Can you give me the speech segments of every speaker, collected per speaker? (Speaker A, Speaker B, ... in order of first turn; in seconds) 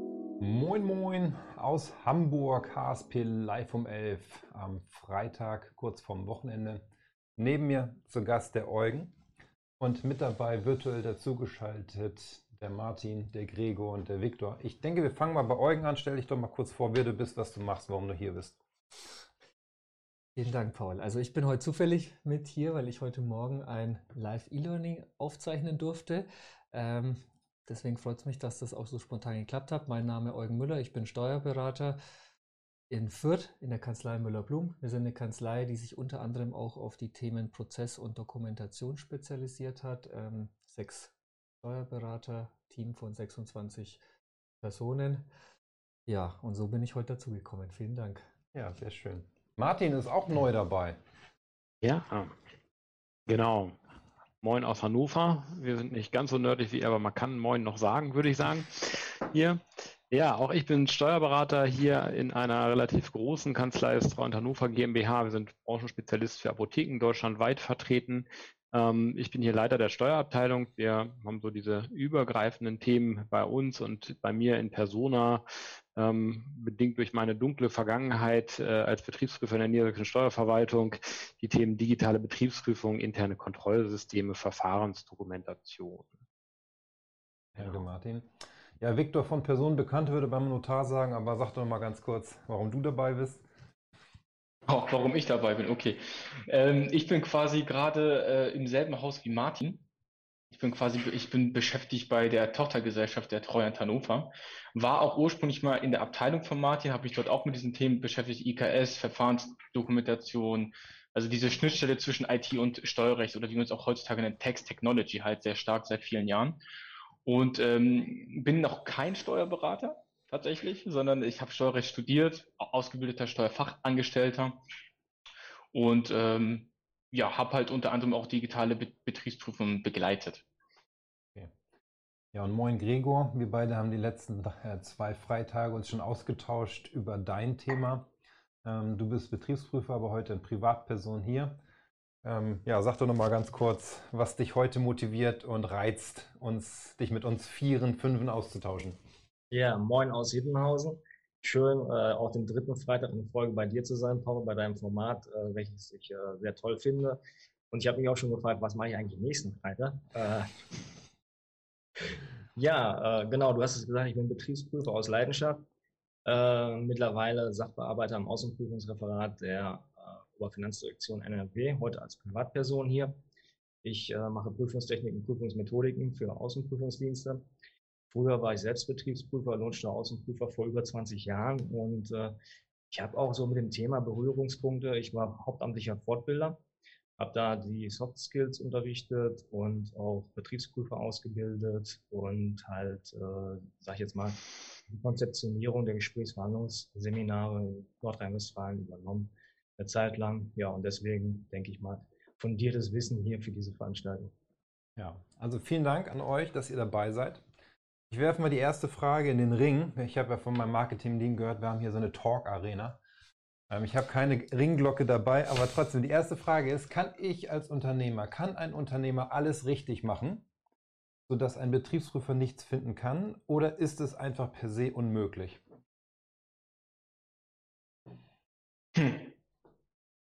Speaker A: 0.4-9.2, 9.8-18.6, 48.5-51.0, 87.5-88.3, 88.8-93.4, 132.3-138.1, 138.6-141.6, 142.2-149.0, 205.0-207.4, 208.1-213.0, 213.7-220.4, 221.3-225.6
Speaker B: 20.4-32.0, 32.9-44.0, 44.6-45.3, 46.1-48.2
Speaker C: 51.8-52.3, 53.3-53.8, 54.4-59.6, 60.1-75.4, 76.0-86.2
Speaker D: 94.7-99.8, 100.5-116.6, 117.2-124.6, 125.7-130.4, 228.9-229.3
Speaker E: 149.5-157.2, 157.7-160.5, 162.5-165.7, 166.2-173.1, 173.8-177.4, 178.1-182.3, 182.9-186.6, 187.2-204.3